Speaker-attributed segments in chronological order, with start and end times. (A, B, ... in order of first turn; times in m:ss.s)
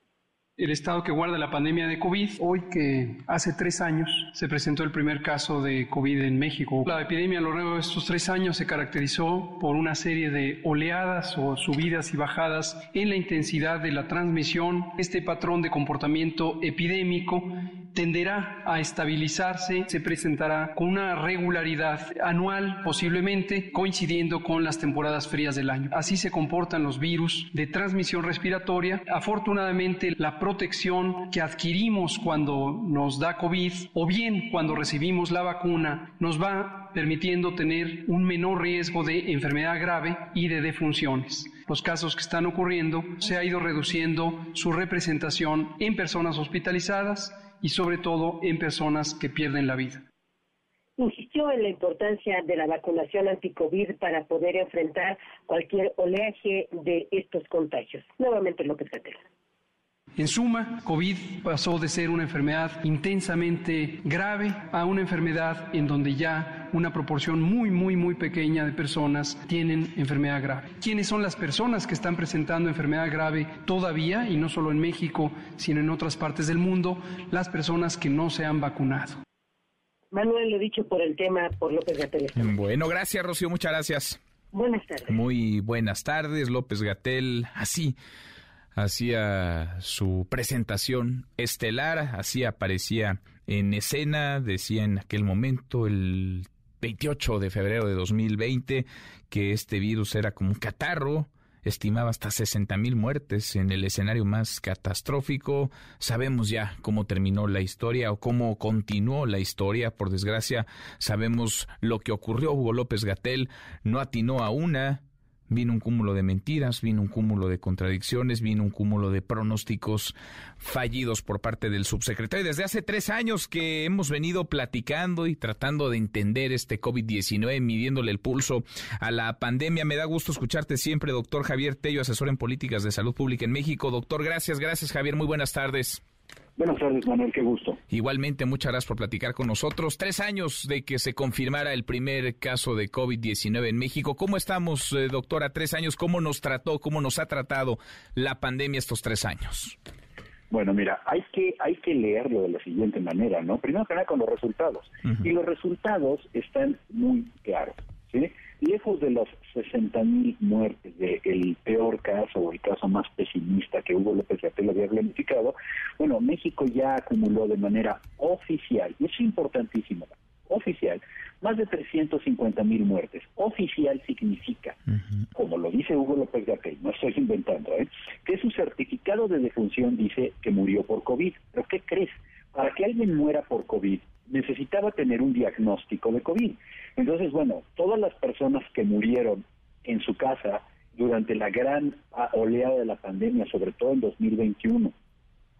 0:00.6-0:50.0 A
0:51.0-0:59.2 B
1:00.2-1:19.2 A
1:20.1-1:22.6 B
1:22.4-1:24.2 C
1:24.5-1:25.2 B
1:25.1-1:28.0 C
1:28.8-2:16.0 C
2:16.6-2:17.8 D
2:17.9-2:29.8 C
2:30.5-2:54.8 D
2:55.3-3:14.9 D